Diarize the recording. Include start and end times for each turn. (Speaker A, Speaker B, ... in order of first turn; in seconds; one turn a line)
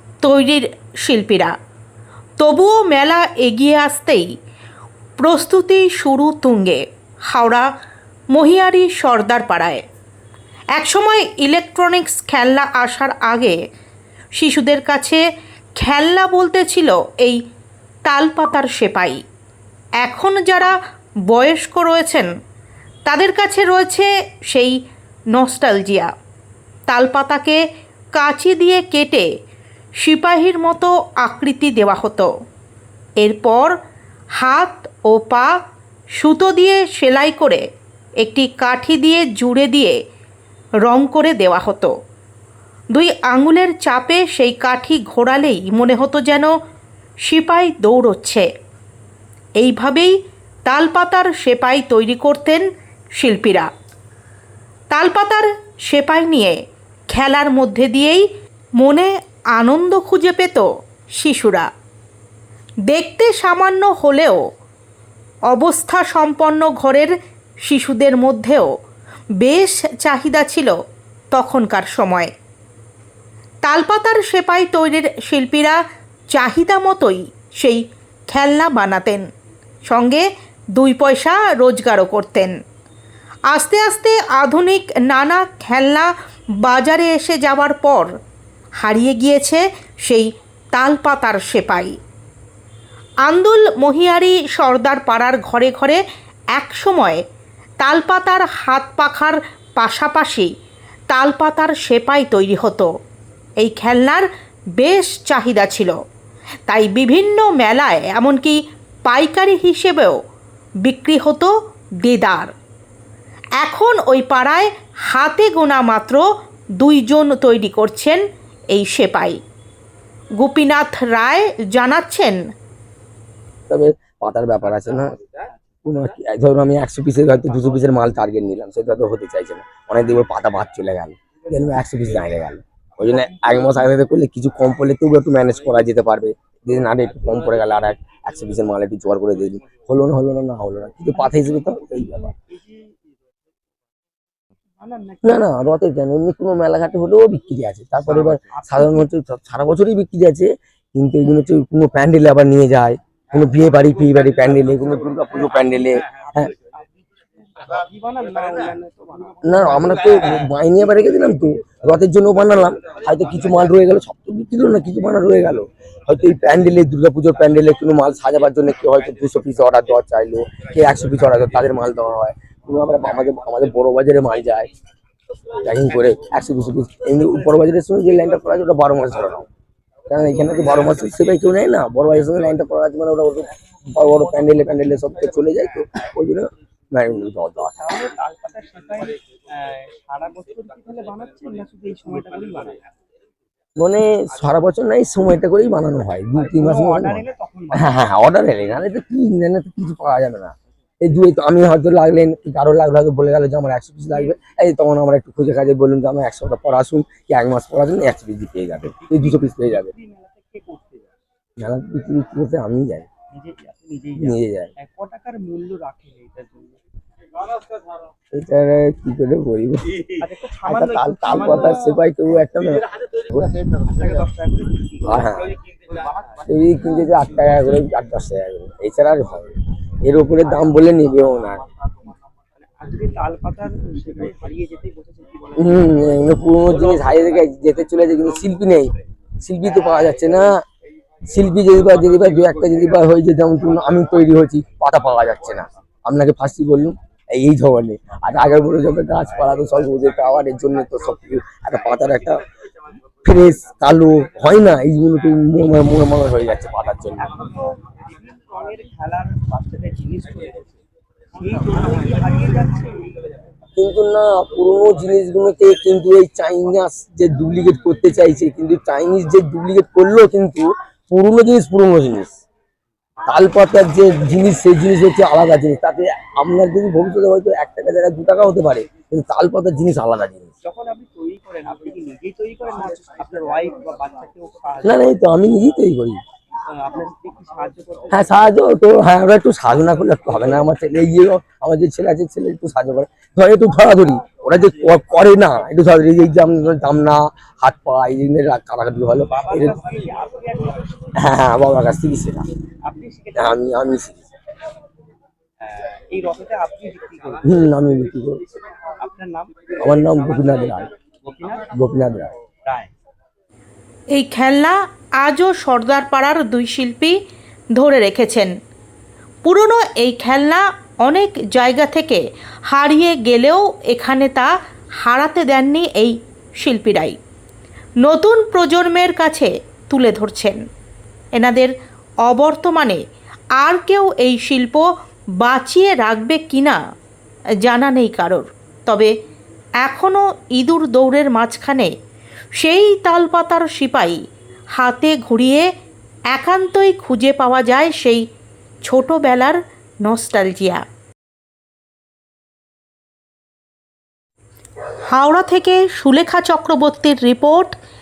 Speaker A: 0.2-1.6
Speaker A: 2.4-4.3
Speaker A: 5.2-7.7
Speaker A: 8.3-9.8
Speaker A: 10.8-13.6
Speaker A: 14.3-15.2
Speaker A: 15.8-17.4
Speaker A: 18.1-19.2
Speaker A: 20.0-20.8
Speaker A: 21.3-22.3
Speaker A: 23.1-24.8
Speaker A: 25.3-26.1
Speaker A: 26.9-27.6
Speaker A: 28.1-29.3
Speaker A: 30.0-32.3
Speaker A: 33.2-33.8
Speaker A: 34.4-35.6
Speaker A: 36.2-37.6
Speaker A: 38.2-40.0
Speaker A: 40.9-41.9
Speaker A: 42.9-46.5
Speaker A: 47.2-48.5
Speaker A: 49.6-50.1
Speaker A: 50.7-52.6
Speaker A: 53.2-53.7
Speaker A: 54.9-56.6
Speaker A: 57.1-58.3
Speaker A: 58.8-61.7
Speaker A: 62.9-64.4
Speaker A: 65.5-67.1
Speaker A: 67.7-68.7
Speaker A: 69.4-70.7
Speaker A: 71.3-72.3
Speaker A: 73.7-75.8
Speaker A: 76.3-79.3
Speaker A: 79.9-82.6
Speaker A: 83.5-88.1
Speaker A: 88.8-92.0
Speaker A: 93.2-96.0
Speaker A: 96.5-97.2
Speaker A: 97.8-100.5
Speaker A: 101.1-102.9
Speaker A: 103.6-106.0
Speaker A: 106.7-110.2
Speaker A: 110.8-112.5
Speaker A: 113.6-116.2
Speaker A: 116.8-119.4
Speaker A: 120.4-122.4
Speaker B: 123.7-125.2
Speaker B: 125.8-142.3
Speaker C: 141.3-142.9
Speaker C: 144.8-145.5
Speaker B: 145.2-156.5
Speaker C: 148.1-149.1
Speaker C: 156.0-156.9
Speaker C: 157.6-160.5
Speaker B: 159.4-174.7
Speaker B: 175.6-179.5
Speaker B: 180.1-187.8
Speaker C: 187.8-192.8
Speaker B: 193.8-209.9
Speaker C: 196.4-198.0
Speaker C: 209.0-211.1
Speaker B: 211.6-213.1
Speaker C: 213.3-216.8
Speaker B: 214.2-214.7
Speaker B: 218.3-220.1
Speaker C: 220.2-222.0
Speaker B: 220.7-223.5
Speaker C: 223.8-227.3
Speaker B: 225.0-225.5
Speaker B: 226.5-231.6
Speaker C: 231.8-236.4
Speaker B: 235.6-240.6
Speaker B: 241.3-252.4
Speaker B: 253.2-257.3
Speaker C: 257.2-260.8
Speaker C: 261.4-263.1
Speaker B: 263.8-272.4
Speaker B: 273.2-280.5
Speaker C: 280.6-285.1
Speaker B: 284.8-286.2
Speaker C: 286.7-288.5
Speaker B: 288.1-299.8
Speaker C: 299.3-301.1
Speaker B: 301.1-302.5
Speaker C: 302.9-303.8
Speaker B: 303.4-304.3
Speaker C: 305.6-307.5
Speaker B: 307.4-308.4
Speaker C: 308.9-311.8
Speaker B: 309.8-310.9
Speaker B: 311.7-312.3
Speaker C: 312.7-312.9
Speaker A: 314.1-317.2
Speaker A: 317.7-318.5
Speaker A: 319.4-324.5
Speaker A: 325.0-327.2
Speaker A: 328.0-330.6
Speaker A: 331.3-331.7
Speaker A: 332.2-333.0
Speaker A: 333.6-334.9
Speaker A: 335.4-336.8
Speaker A: 337.6-339.1
Speaker A: 339.8-341.9
Speaker A: 342.6-344.2
Speaker A: 344.8-345.7
Speaker A: 346.3-348.2
Speaker A: 348.9-350.8
Speaker A: 355.1-357.8